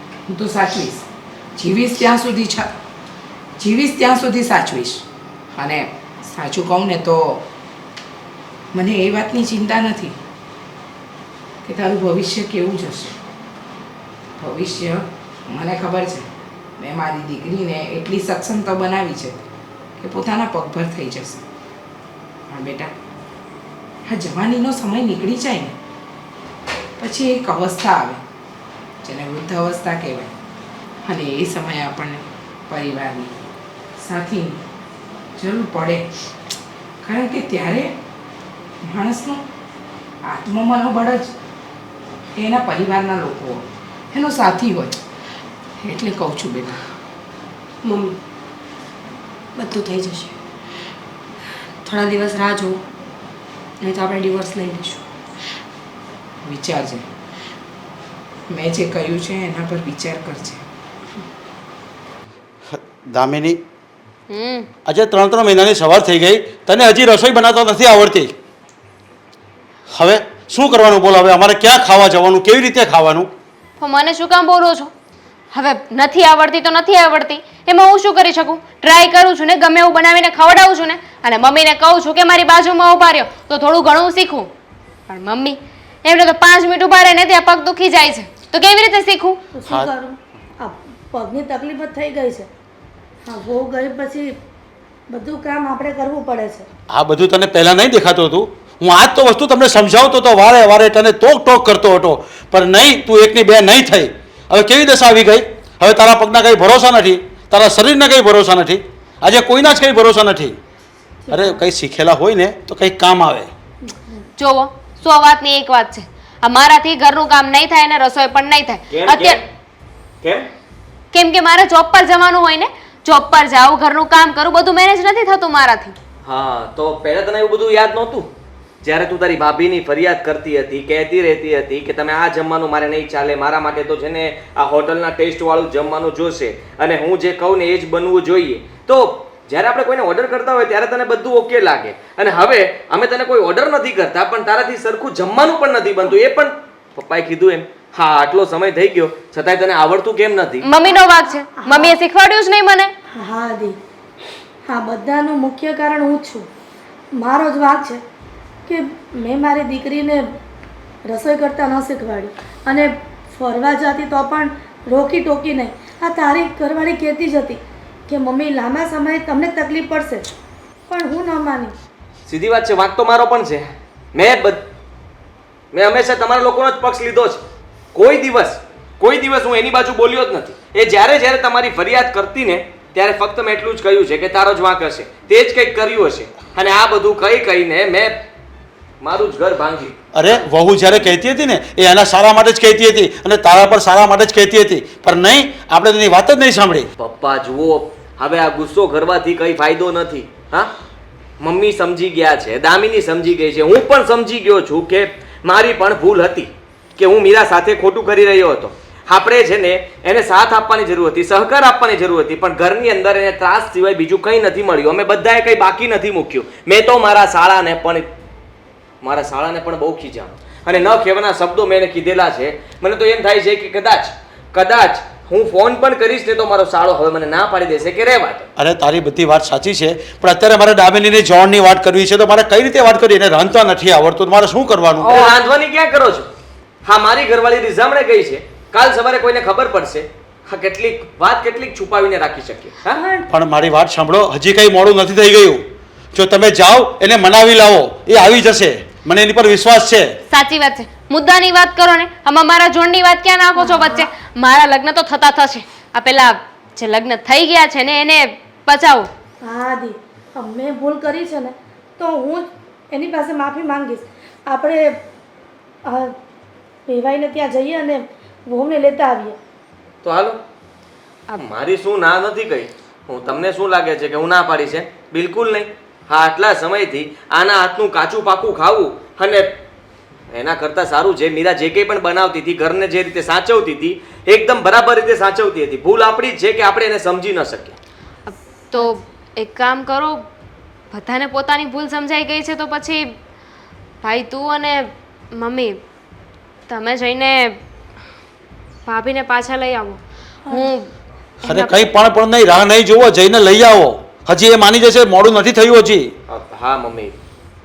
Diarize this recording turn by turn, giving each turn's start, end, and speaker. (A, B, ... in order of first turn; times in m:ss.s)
0:00.3-0:02.7 A
0:03.6-0:05.0 A
0:05.6-0:07.4 A
0:08.7-0:10.2 A
0:11.6-0:13.2 A
0:14.4-0:16.3 A
0:16.8-0:19.4 A
0:20.0-0:21.4 A
0:22.5-0:22.9 A
0:24.1-0:25.8 A
0:27.0-0:28.2 A
0:29.0-0:30.3 A
0:31.0-0:33.4 A
0:34.0-0:34.6 A
0:35.4-0:36.1 A
0:37.0-0:37.9 A
0:38.9-0:39.4 A
0:40.3-0:41.3 A
0:42.4-0:45.0 A
0:45.8-0:46.8 A
0:47.8-0:48.2 B
0:49.6-0:50.4 B
0:51.8-0:52.8 B
0:53.8-0:55.0 B
0:56.4-0:57.0 A
0:58.5-1:00.6 A
1:02.7-1:03.6 C
1:04.3-1:04.7 D
1:04.9-1:08.3 C
1:09.9-1:13.3 C
1:13.8-1:14.9 D
1:15.5-1:24.5 D
1:25.1-1:29.4 D
1:29.6-1:32.5 E
1:33.3-1:34.3 E
1:35.1-1:36.7 E
1:36.9-1:50.6 C
1:51.3-1:53.5 C
1:51.3-1:51.6 E
1:54.4-1:59.4 D
1:58.9-1:59.4 F
2:00.2-2:00.5 F
2:01.1-2:06.0 D
2:06.2-2:08.3 F
2:08.8-2:30.6 F
2:30.6-2:32.9 D
2:30.9-2:32.0 E
2:33.2-2:33.8 E
2:34.7-2:36.5 E
2:37.2-2:38.0 E
2:38.7-2:40.3 E
2:41.1-2:50.3 E
2:50.9-2:51.7 E
2:52.3-2:54.6 F
2:55.7-2:57.4 F
2:57.9-3:08.2 F
3:09.0-3:10.4 F
3:10.1-3:16.9 C
3:17.0-3:20.7 F
3:21.4-3:38.1 F
3:39.0-3:48.5 F
3:48.6-3:55.3 C
3:55.0-3:56.3 F
3:56.8-4:03.0 F
4:03.0-4:03.3 E
4:03.3-4:10.0 C
4:10.3-4:19.1 D
4:13.6-4:14.1 E
4:19.4-4:25.0 E
4:25.8-4:26.2 E
4:26.9-4:29.4 E
4:30.0-4:30.4 F
4:31.4-4:39.5 F
4:40.3-4:47.8 F
4:48.3-4:50.3 D
4:50.9-4:53.2 D
4:54.0-4:55.8 D
4:56.7-4:57.6 D
4:58.9-5:00.0 D
5:00.5-5:00.9 D
5:01.4-5:06.1 C
5:06.3-5:07.2 F